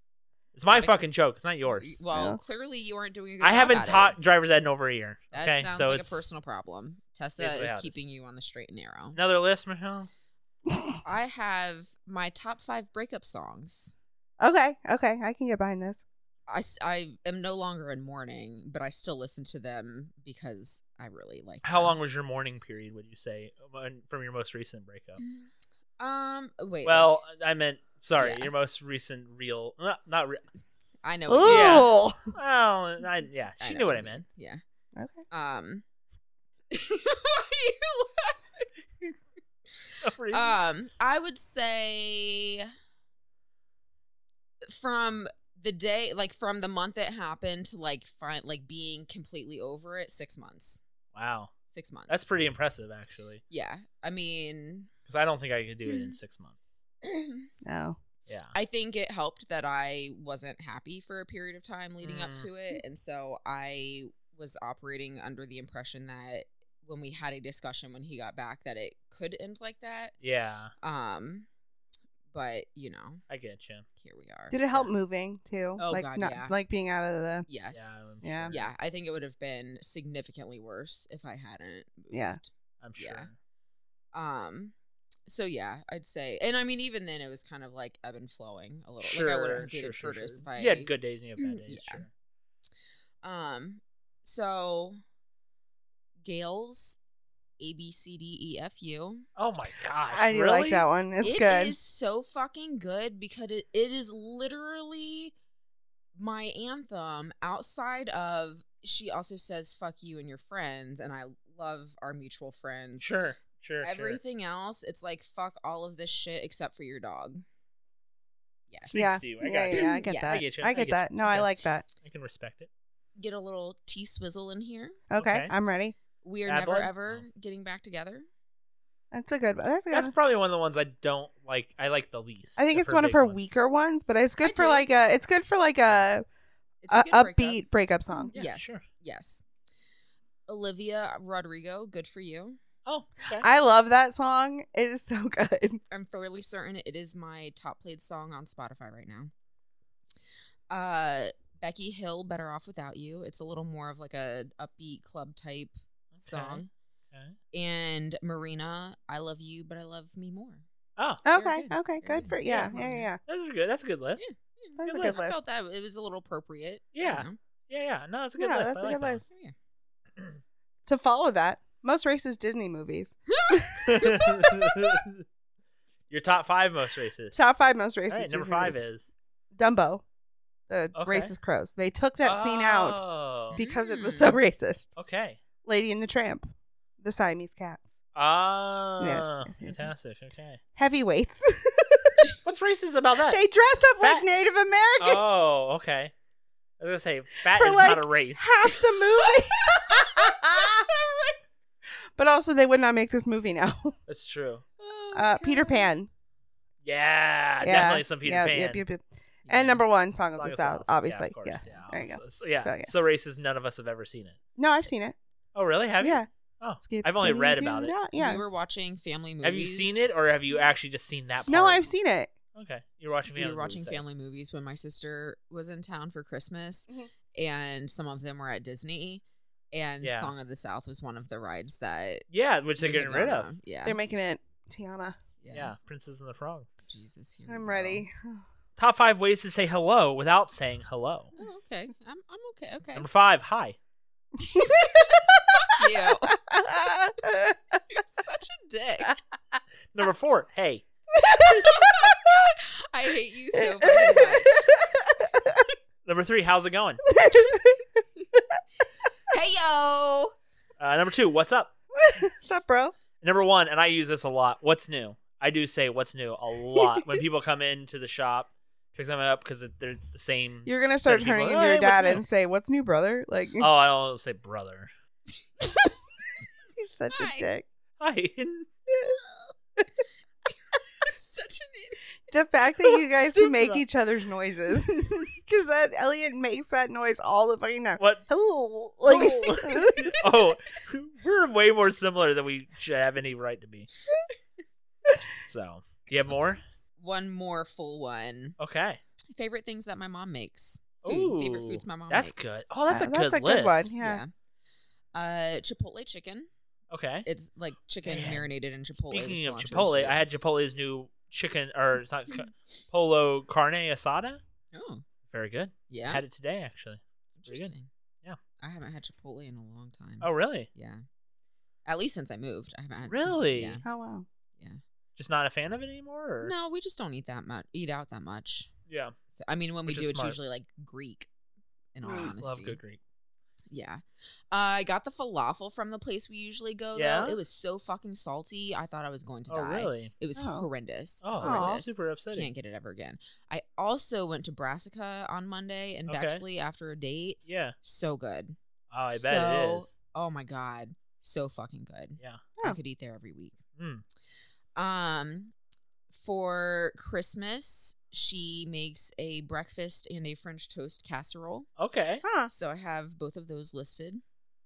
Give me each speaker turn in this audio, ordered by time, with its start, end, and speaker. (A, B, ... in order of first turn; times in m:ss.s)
0:00.5-0:02.0 A
0:00.7-0:01.0 B
0:01.6-0:04.2 B
0:02.1-0:02.4 C
0:03.4-0:06.2 A
0:05.3-0:09.2 B
0:07.4-0:08.0 A
0:09.1-0:10.1 A
0:10.7-0:11.0 C
0:11.0-0:13.9 B
0:14.4-0:16.0 C
0:16.5-0:22.0 B
0:21.6-0:25.2 A
0:25.2-0:27.2 B
0:26.8-0:30.4 A
0:28.2-0:28.5 B
0:31.0-0:31.9 B
0:31.3-0:32.3 C
0:31.4-0:34.2 A
0:33.6-0:34.6 B
0:35.0-0:35.2 C
0:35.3-0:35.8 B
0:36.7-0:38.7 B
0:39.7-0:42.7 B
0:40.0-0:40.6 A
0:44.6-0:50.8 B
0:51.1-0:51.5 A
0:51.7-0:52.2 B
0:52.1-0:53.4 A
0:53.5-0:54.9 B
0:55.1-0:56.5 A
0:55.9-0:56.2 B
0:57.0-0:57.5 B
0:57.6-0:58.0 C
0:58.3-0:58.5 A
0:58.5-1:10.2 B
1:02.0-1:02.5 A
1:10.2-1:10.7 A
1:10.8-1:11.5 B
1:12.3-1:13.2 B
1:13.3-1:13.8 A
1:14.0-1:14.6 B
1:14.5-1:17.5 C
1:15.8-1:16.6 B
1:17.5-1:18.0 B
1:17.7-1:18.7 A
1:18.2-1:18.5 C
1:18.5-1:22.5 B
1:22.1-1:22.4 C
1:22.8-1:23.3 A
1:23.0-1:23.3 B
1:24.1-1:24.8 B
1:25.3-1:32.0 B
1:29.0-1:32.1 A
1:33.2-1:35.0 B
1:36.2-1:37.0 B
1:37.6-1:39.3 B
1:39.4-1:40.8 A
1:40.1-1:41.8 C
1:41.2-1:45.3 B
1:46.1-1:53.1 B
1:53.0-1:54.2 A
1:53.8-1:57.4 B
1:58.7-1:59.1 B
1:58.9-2:02.7 A
1:58.9-2:01.8 C
1:59.7-2:00.5 B
2:03.2-2:05.0 B
2:05.1-2:06.0 C
2:05.1-2:05.5 A
2:06.2-2:08.3 B
2:06.5-2:07.3 A
2:09.1-2:10.2 C
2:09.9-2:13.4 A
2:12.6-2:16.3 C
2:14.4-2:14.9 B
2:16.8-2:17.6 B
2:16.9-2:18.3 C
2:18.1-2:19.4 B
2:18.3-2:18.8 A
2:20.5-2:22.6 B
2:22.9-2:23.5 A
2:23.4-2:25.8 C
2:25.9-2:29.3 B
2:30.7-2:36.7 B
2:36.1-2:36.6 A
2:37.5-2:40.6 B
2:41.0-2:41.2 A
2:41.2-2:43.2 C
2:41.3-2:43.1 B
2:42.4-2:44.2 A
2:44.2-2:47.4 B
2:44.8-2:45.4 C
2:44.8-2:45.2 A
2:46.9-2:49.2 A
2:48.4-2:49.2 C
2:49.3-2:49.6 B
2:50.9-2:54.1 C
2:53.3-2:55.0 B
2:53.8-2:55.2 A
2:56.1-2:57.4 A
2:57.4-2:58.8 C
2:58.1-2:59.1 A
2:59.6-3:00.0 C
3:00.7-3:04.9 C
3:00.9-3:01.3 A
3:02.2-3:03.6 A
3:03.5-3:04.4 B
3:05.0-3:05.4 A
3:05.6-3:06.5 C
3:07.0-3:07.9 C
3:08.1-3:10.6 A
3:09.0-3:09.9 C
3:10.8-3:12.3 C
3:12.4-3:13.4 A
3:13.3-3:15.2 C
3:15.0-3:16.1 A
3:16.8-3:18.5 A
3:17.6-3:20.9 C
3:18.7-3:21.4 B
3:22.2-3:24.0 C
3:24.1-3:24.6 A
3:24.8-3:25.9 B
3:25.1-3:26.1 C
3:26.8-3:28.8 A
3:27.6-3:32.9 C
3:29.5-3:29.8 B
3:30.4-3:34.4 A
3:34.6-3:35.2 C
3:35.6-3:38.0 A
3:36.0-3:36.3 C
3:36.8-3:38.4 C
3:38.1-3:40.1 B
3:39.4-3:41.8 A
3:41.5-3:42.3 C
3:42.6-3:44.0 A
3:43.4-3:52.3 B
3:50.0-3:50.3 A
3:52.3-3:53.5 A
3:52.8-3:54.0 B
3:53.8-3:55.2 C
3:55.4-3:55.7 B
3:55.5-3:56.7 A
3:56.9-3:58.0 B
3:57.5-3:58.4 C
3:58.8-4:01.3 A
4:01.4-4:03.1 B
4:03.0-4:03.8 A
4:04.4-4:07.6 C
4:04.5-4:06.4 B
4:07.9-4:09.2 B
4:09.9-4:10.8 A
4:11.2-4:12.3 C
4:11.3-4:14.7 B
4:13.5-4:15.7 C
4:16.0-4:17.0 A
4:17.1-4:17.8 C
4:17.4-4:17.6 B
4:19.3-4:20.3 B
4:20.8-4:21.7 A
4:22.0-4:22.9 C
4:23.2-4:32.2 A
4:30.6-4:33.7 C
4:33.6-4:34.9 A
4:35.6-4:35.9 B
4:36.8-4:37.6 C
4:37.1-4:37.5 B
4:38.0-4:38.7 A
4:40.7-4:42.0 B
4:42.3-4:50.2 C
4:43.3-4:43.8 A
4:48.0-4:48.2 A
4:49.0-4:53.9 A
4:55.5-4:56.6 A
4:57.0-4:58.6 B
4:58.6-4:59.0 A
4:59.3-5:02.5 B
5:01.0-5:03.9 A
5:02.9-5:04.2 C
5:04.0-5:04.3 B
5:05.1-5:06.5 B
5:06.9-5:07.3 A
5:07.2-5:10.2 B
5:08.0-5:08.5 A
5:09.1-5:14.4 A
5:14.7-5:15.1 B
5:15.3-5:17.7 A
5:15.9-5:16.2 B
5:17.4-5:17.9 B
5:18.6-5:21.0 B
5:20.2-5:20.7 A
5:21.9-5:23.8 B
5:23.1-5:23.8 A
5:23.8-5:24.3 C
5:25.2-5:26.5 A
5:26.4-5:28.7 B
5:28.9-5:29.1 A
5:29.3-5:31.3 B
5:29.9-5:30.4 A
5:32.0-5:32.8 B
5:32.1-5:33.0 A
5:33.7-5:48.6 B
5:37.0-5:37.4 A
5:39.5-5:40.1 A
5:40.4-5:40.6 C
5:41.2-5:42.5 A
5:41.4-5:41.9 C
5:46.1-5:46.4 A
5:47.5-5:47.8 A
5:48.9-5:49.9 A
5:49.1-5:53.6 B
5:53.8-5:54.0 A
5:54.8-5:55.5 B
5:56.1-6:01.7 B
6:01.8-6:02.2 A
6:02.2-6:02.5 C
6:02.5-6:04.2 B